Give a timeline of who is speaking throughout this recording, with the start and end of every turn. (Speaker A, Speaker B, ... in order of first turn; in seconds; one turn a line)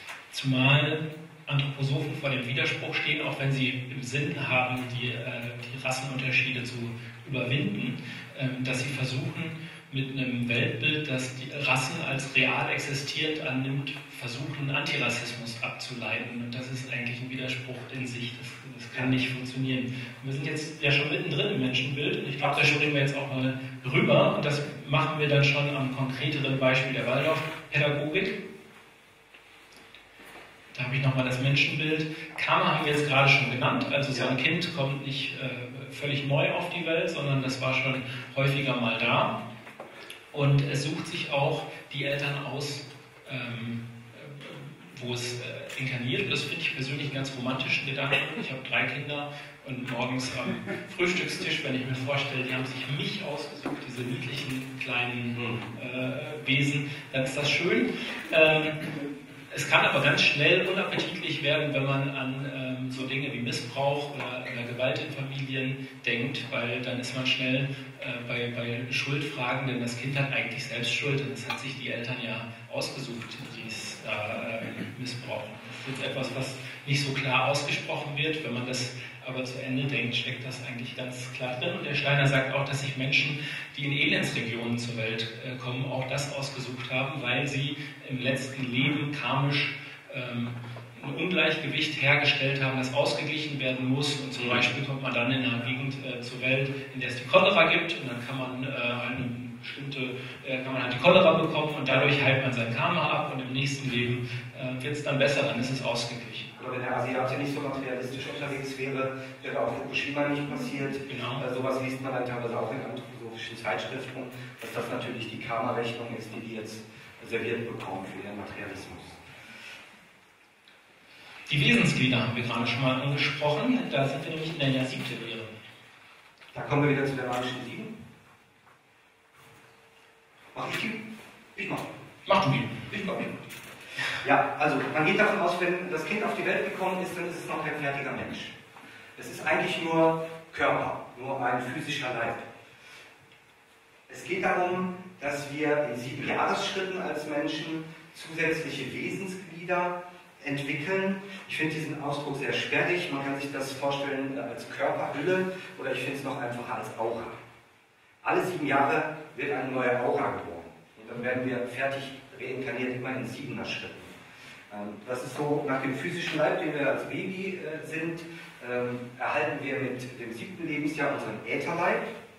Speaker A: 0.3-28.4
Speaker B: 22.4-22.8
Speaker A: 30.7-39.4
Speaker A: 40.3-58.9
Speaker B: 55.4-55.7
Speaker A: 59.5-106.5
Speaker B: 94.4-94.6
Speaker B: 101.9-102.1
Speaker B: 106.6-119.2
Speaker A: 111.1-111.4
Speaker A: 121.5-125.5
Speaker B: 126.5-128.0
Speaker B: 130.5-131.0
Speaker B: 131.6-131.9
Speaker A: 132.3-132.8
Speaker B: 132.9-133.4
Speaker B: 134.2-138.6
Speaker B: 139.2-142.5
Speaker B: 144.1-157.4
Speaker B: 158.2-164.2
Speaker B: 164.7-172.1